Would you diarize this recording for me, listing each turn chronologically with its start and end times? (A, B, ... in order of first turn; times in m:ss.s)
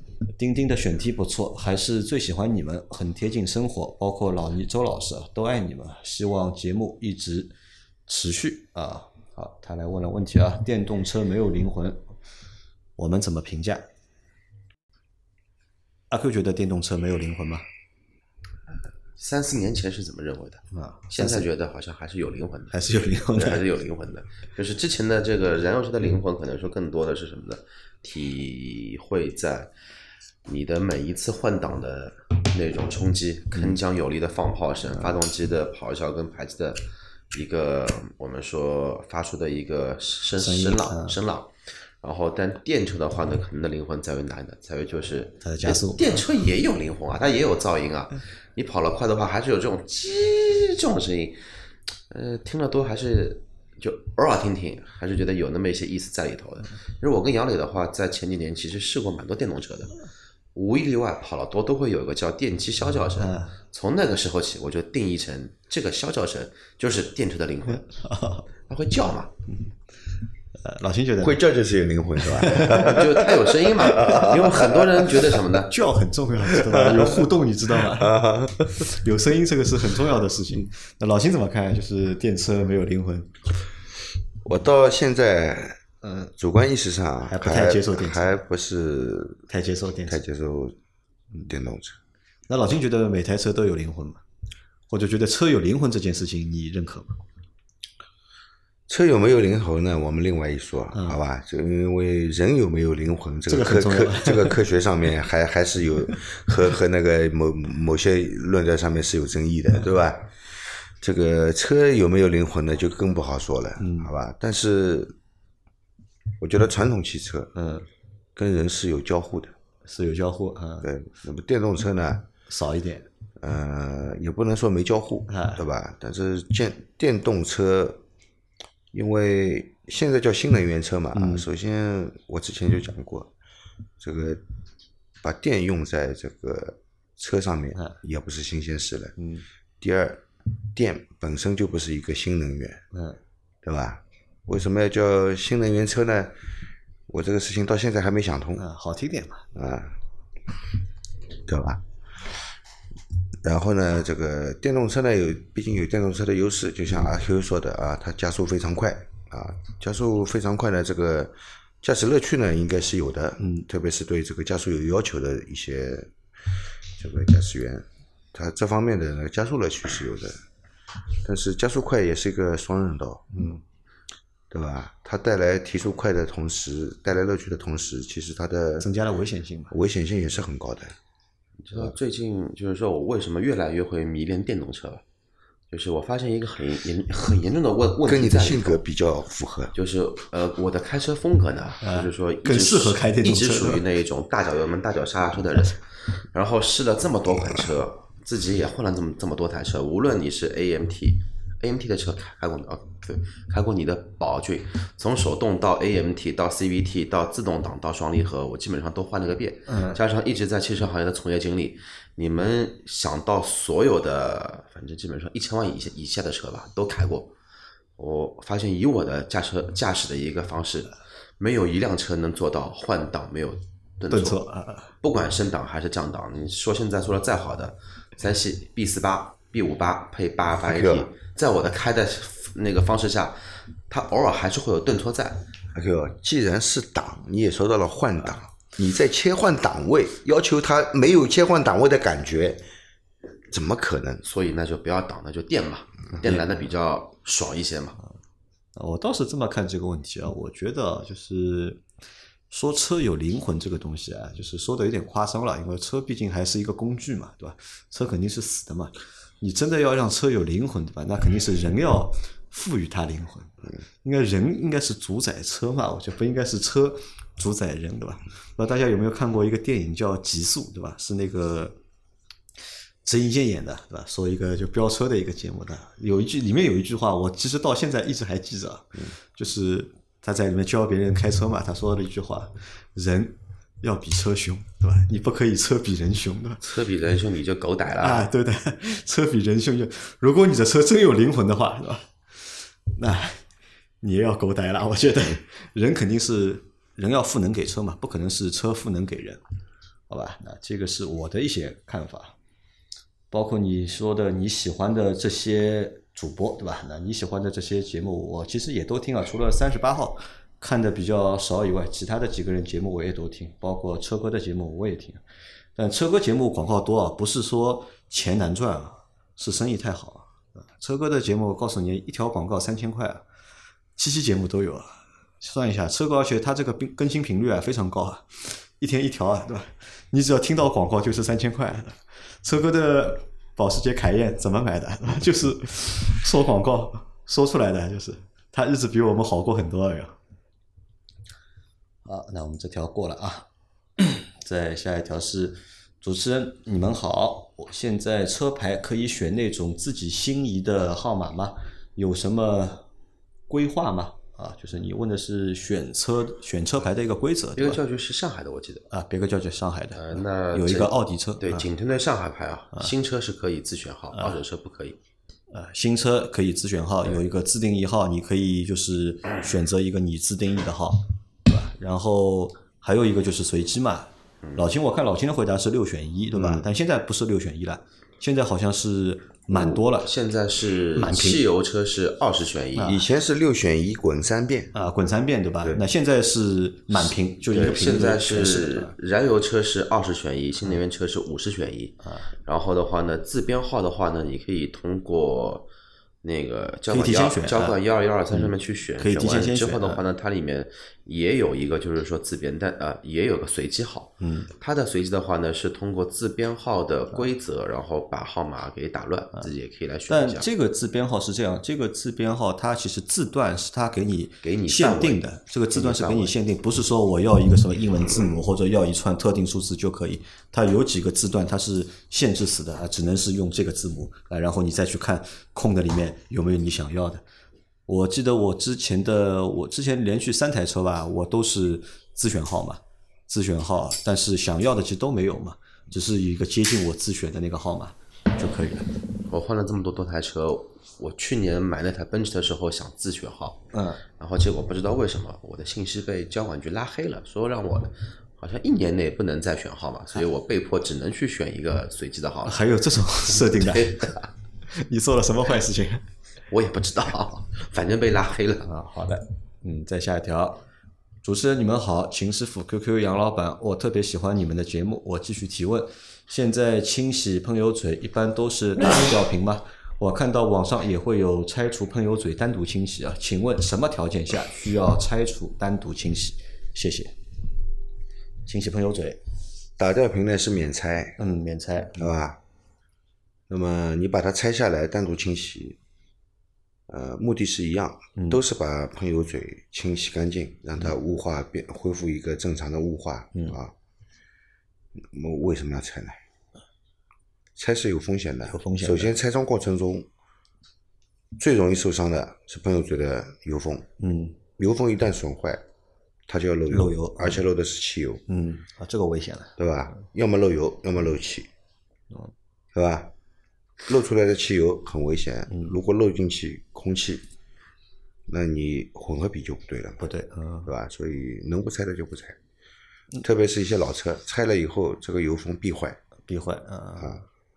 0:00.4-0:07.5 A
0:08.1-0:12.0 A
0:13.0-0:13.9 A
0:16.1-0:17.6 A
0:19.2-0:29.7 B
0:20.7-0:21.5 A
0:22.7-0:23.6 A
0:30.4-0:51.4 B
0:33.5-0:33.8 A
0:40.4-0:41.2 A
0:45.4-0:46.0 A
0:52.1-1:00.0 B
1:00.5-1:07.9 B
1:03.2-1:03.5 A
1:07.9-1:08.4 A
1:08.7-1:09.3 B
1:10.6-1:11.4 A
1:11.2-1:15.0 C
1:12.2-1:13.0 A
1:12.6-1:15.7 B
1:15.6-1:23.4 A
1:16.5-1:18.9 C
1:24.4-1:25.8 C
1:26.0-1:26.3 A
1:26.4-1:29.5 C
1:27.3-1:28.4 A
1:29.5-1:30.2 A
1:30.1-1:30.8 C
1:31.4-1:32.0 C
1:32.5-1:34.2 A
1:34.9-1:37.2 A
1:38.9-1:55.2 C
1:40.9-1:41.2 A
1:43.5-1:44.6 A
1:53.8-1:54.1 A
1:56.4-1:57.5 C
1:57.5-1:57.9 A
1:58.4-1:59.5 C
1:59.8-2:00.9 A
2:00.8-2:02.3 C
2:02.5-2:03.1 A
2:03.4-2:08.0 C
2:05.3-2:05.6 A
2:08.9-2:13.3 C
2:11.1-2:11.4 A
2:14.0-2:14.4 C
2:15.2-2:19.1 C
2:19.2-2:19.4 A
2:19.8-2:22.8 C
2:22.9-2:23.2 A
2:23.6-2:26.3 C
2:27.1-2:28.6 C
2:28.6-2:29.5 A
2:29.5-2:30.0 C
2:31.4-2:32.5 C
2:33.4-2:46.1 C
2:43.4-2:43.6 A
2:47.0-2:50.4 C
2:51.2-2:53.4 C
2:53.3-2:53.6 A
2:54.5-2:58.9 C
2:58.8-2:59.7 A
2:59.7-3:01.0 C
3:01.6-3:05.0 B
3:05.7-3:08.8 B
3:08.0-3:09.7 C
3:09.7-3:37.3 B
3:11.8-3:13.8 A
3:29.7-3:30.0 A
3:38.0-3:44.4 B
3:44.1-3:44.9 A
3:45.0-3:55.5 B
3:50.6-3:51.1 C
3:55.7-4:02.6 C
4:03.5-4:04.2 C
4:04.2-4:08.0 B
4:06.2-4:06.4 A
4:08.8-4:11.8 A
4:12.5-4:31.8 A
4:33.0-4:46.6 A
4:46.6-4:48.3 B
4:48.0-4:53.4 A
4:54.0-4:59.4 A
5:00.1-5:02.4 A
5:03.3-5:15.2 A
5:15.8-5:23.2 A
5:24.0-5:40.2 A
5:42.0-5:52.8 A
5:53.5-5:57.8 A
5:57.6-5:58.8 B
5:58.9-6:01.7 A
5:59.9-6:05.0 B
6:04.1-6:04.4 A
6:05.5-6:20.1 A
6:16.4-6:16.7 C
6:19.5-6:23.0 B
6:21.0-6:21.4 A
6:22.8-6:24.7 C
6:24.7-6:28.9 A
6:27.5-6:35.7 B
6:32.0-6:32.3 A
6:36.2-6:50.4 B
6:36.9-6:37.8 A
6:38.3-6:40.0 A
6:44.2-6:44.5 A
6:50.1-7:07.2 A
6:54.4-6:56.3 B
7:07.9-7:18.9 A
7:19.3-7:23.7 B
7:23.7-7:24.0 A
7:24.2-7:32.6 B
7:32.4-7:36.0 A
7:33.3-7:34.3 B
7:36.5-7:38.7 B
7:38.6-7:40.6 A
7:41.2-7:57.2 A
7:58.5-7:59.2 A
7:59.8-8:01.2 C
8:01.2-8:02.1 A
8:02.0-8:02.4 C
8:03.5-8:05.8 C
8:06.9-8:13.7 C
8:08.2-8:08.4 A
8:15.0-8:16.2 C
8:17.6-8:20.1 C
8:18.5-8:19.1 A
8:21.4-8:23.9 C
8:24.0-8:24.4 A
8:24.6-8:25.6 C
8:26.3-8:28.2 C
8:26.7-8:27.4 A
8:28.3-8:29.6 A
8:29.6-8:31.5 C
8:32.7-8:33.1 C
8:33.8-8:37.2 C
8:38.3-8:40.0 C
8:40.0-8:40.7 A
8:40.6-8:42.4 C
8:43.2-8:46.0 C
8:46.3-8:47.2 A